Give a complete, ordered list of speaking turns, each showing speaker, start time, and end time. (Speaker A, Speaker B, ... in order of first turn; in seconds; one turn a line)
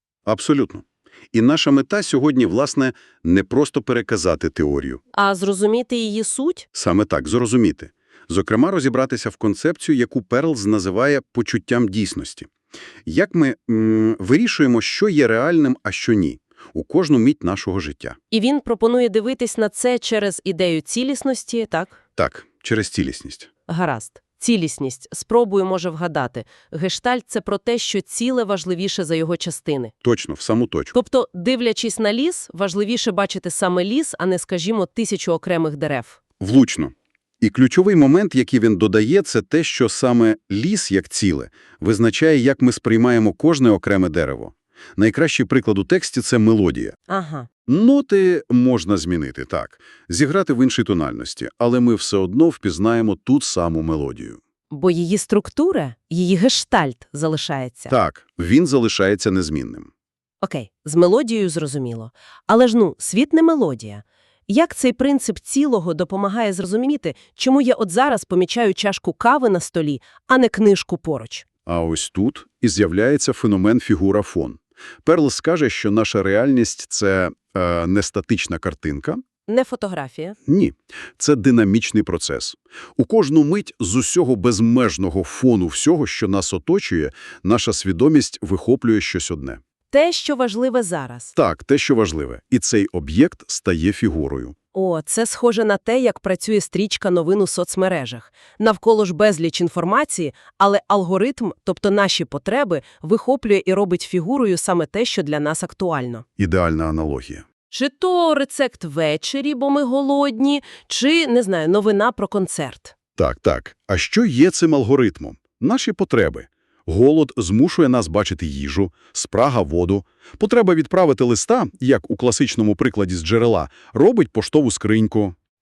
Speaker A: 0.3-5.0
Speaker B: 5.1-6.7
Speaker A: 6.7-12.5
Speaker A: 13.1-18.2
Speaker B: 18.3-22.0
Speaker A: 22.2-23.5
Speaker B: 23.7-29.9
Speaker A: 30.0-30.9
Speaker B: 30.9-36.2
Speaker A: 36.4-47.0
Speaker B: 47.1-47.5
Speaker A: 47.7-54.4
Speaker B: 54.7-57.9
Speaker A: 57.9-59.9
Speaker B: 60.4-71.5
Speaker A: 71.7-79.2
Speaker B: 79.5-80.4
Speaker A: 80.5-89.6
Speaker B: 89.9-91.3
Speaker A: 91.4-94.5
Speaker B: 94.7-106.2
Speaker A: 106.4-107.5
Speaker B: 107.7-112.9
Speaker A: 113.2-125.3